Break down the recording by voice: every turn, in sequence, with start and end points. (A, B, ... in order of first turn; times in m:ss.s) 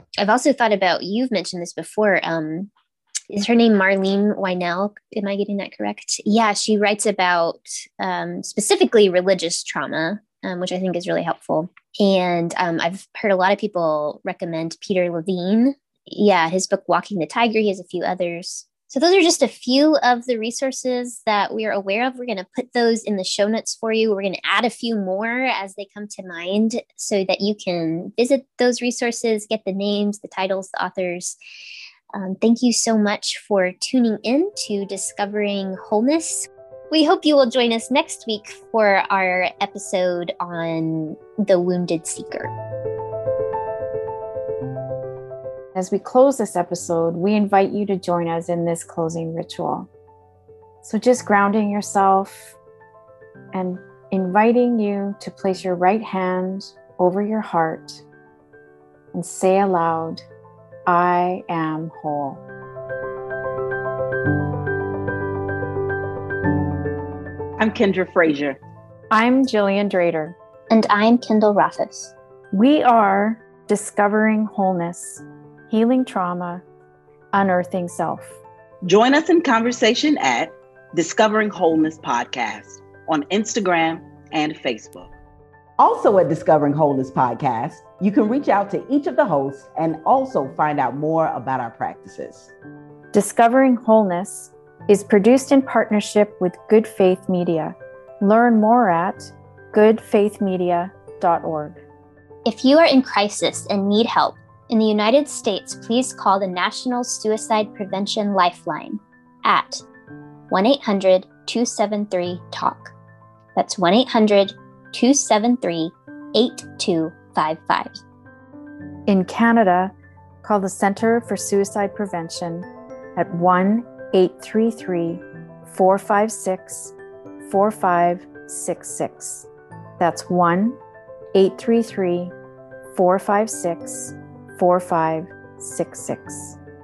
0:00.2-0:02.7 A
0:03.3-0:31.4 A
0:32.1-0:42.5 A
0:45.8-0:49.9 B
0:50.8-0:52.6 B
0:53.5-0:58.0 B
0:59.1-1:00.2 B
1:00.9-1:02.4 B
1:07.6-1:08.6 C
1:09.1-1:10.4 B
1:10.7-1:12.1 A
1:12.5-1:16.6 B
1:17.3-1:18.4 B
1:18.8-1:25.1 C
1:25.8-1:32.5 C
1:33.1-1:41.8 B
1:42.5-1:49.8 A
1:50.5-1:52.9 A
1:53.6-1:58.0 A
1:59.1-2:09.5 B
2:10.0-2:10.8 B
2:11.3-2:12.3 B
2:12.9-2:16.6 B